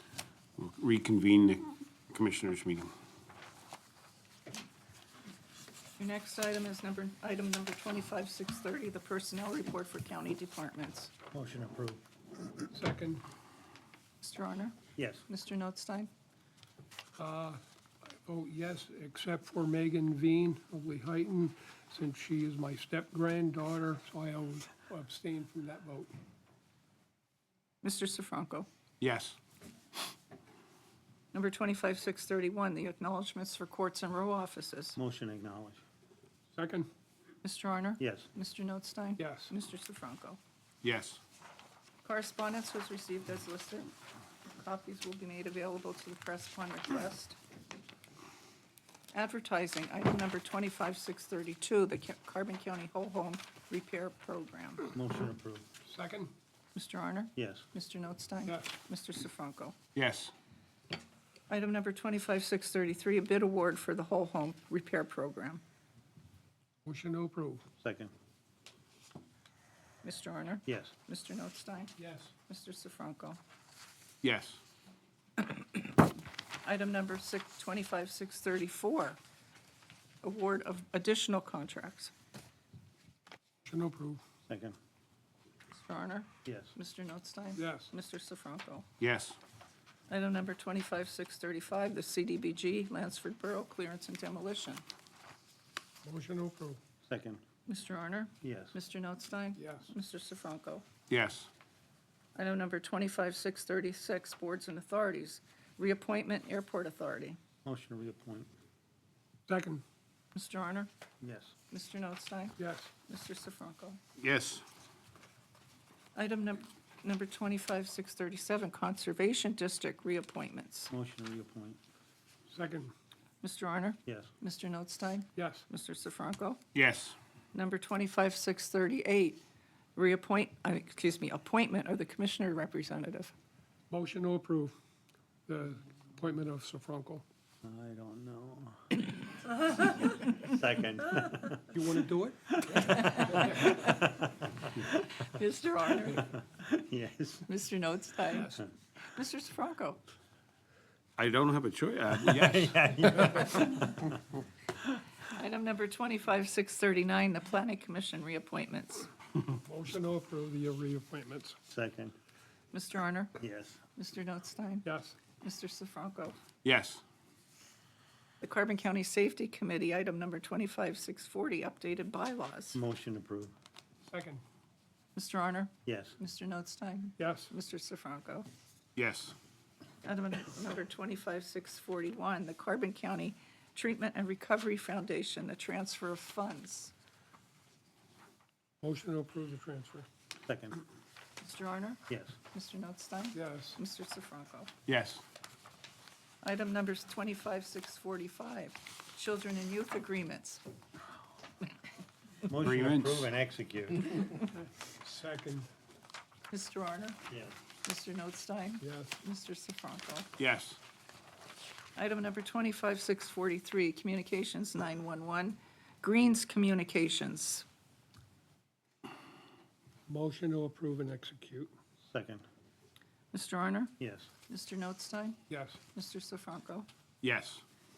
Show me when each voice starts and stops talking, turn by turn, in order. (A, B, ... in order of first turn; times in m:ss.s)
0:00.6-0:02.9 A
0:06.0-0:11.1 B
0:11.3-0:12.0 C
0:12.7-0:13.2 D
0:14.2-0:16.1 B
0:15.0-0:15.3 C
0:17.2-0:26.1 D
0:27.8-0:28.7 B
0:29.0-0:29.4 A
0:31.3-0:35.0 B
0:35.0-0:35.8 C
0:36.6-0:36.9 D
0:37.4-0:40.4 B
0:38.0-0:38.3 C
0:39.2-0:39.5 D
0:40.8-0:41.2 A
0:42.0-0:43.9 B
0:44.6-0:47.4 B
0:49.1-0:54.9 B
0:54.9-0:55.7 C
0:55.9-0:56.3 D
0:56.8-0:59.8 B
0:57.4-0:57.7 C
0:58.5-0:58.7 D
1:00.0-1:00.3 A
1:01.5-1:05.6 B
1:06.8-1:07.6 D
1:07.8-1:08.1 C
1:10.0-1:13.4 B
1:10.7-1:10.9 C
1:12.0-1:12.3 D
1:14.2-1:14.6 A
1:16.6-1:19.2 B
1:20.2-1:22.1 B
1:23.6-1:24.2 D
1:24.5-1:24.8 C
1:25.7-1:28.9 B
1:26.4-1:26.7 C
1:27.6-1:27.9 D
1:29.0-1:29.4 A
1:30.1-1:34.8 B
1:36.0-1:36.8 D
1:37.0-1:37.4 C
1:37.7-1:40.8 B
1:38.4-1:38.8 C
1:39.6-1:39.9 D
1:41.1-1:41.5 A
1:42.4-1:47.4 B
1:47.6-1:48.5 C
1:49.5-1:49.8 D
1:50.3-1:50.9 B
1:51.2-1:51.6 C
1:51.7-1:54.0 B
1:52.6-1:52.9 D
1:54.2-1:54.6 A
1:56.2-2:00.9 B
2:00.9-2:01.8 C
2:02.5-2:02.9 D
2:03.4-2:06.6 B
2:05.4-2:05.6 D
2:06.7-2:07.2 A
2:07.5-2:09.4 B
2:10.0-2:13.3 B
2:13.9-2:14.7 D
2:15.5-2:17.2 D
2:17.6-2:18.9 C
2:20.3-2:21.7 C
2:21.7-2:23.7 D
2:22.7-2:24.3 C
2:23.1-2:23.7 B
2:25.0-2:26.3 B
2:26.3-2:27.5 C
2:27.5-2:30.0 B
2:28.3-2:28.6 D
2:31.2-2:33.3 A
2:32.2-2:34.1 C
2:35.2-2:39.1 B
2:39.6-2:41.6 D
2:41.7-2:42.2 C
2:42.7-2:43.4 B
2:43.4-2:43.8 C
2:44.0-2:44.9 B
2:44.8-2:45.2 D
2:45.4-2:46.4 B
2:46.6-2:47.0 A
2:48.4-2:52.8 B
2:52.8-2:53.5 C
2:54.1-2:54.4 D
2:55.2-2:58.5 B
2:55.8-2:56.2 C
2:57.2-2:57.5 D
2:59.0-2:59.4 A
3:00.0-3:06.9 B
3:08.8-3:10.1 D
3:10.4-3:10.8 C
3:11.4-3:14.7 B
3:12.1-3:12.4 C
3:13.4-3:13.8 D
3:14.9-3:15.2 A
3:16.4-3:20.6 B
3:22.5-3:24.4 C
3:22.5-3:23.3 A
3:25.0-3:25.7 D
3:26.5-3:27.2 B
3:27.3-3:27.5 C
3:27.8-3:30.3 B
3:28.8-3:29.1 D
3:30.4-3:30.8 A
3:32.0-3:37.7 B
3:40.1-3:41.7 D
3:42.1-3:42.4 C
3:43.3-3:44.0 B
3:44.0-3:44.3 C
3:44.5-3:45.4 B
3:45.5-3:45.8 D
3:45.9-3:46.9 B
3:47.2-3:47.6 A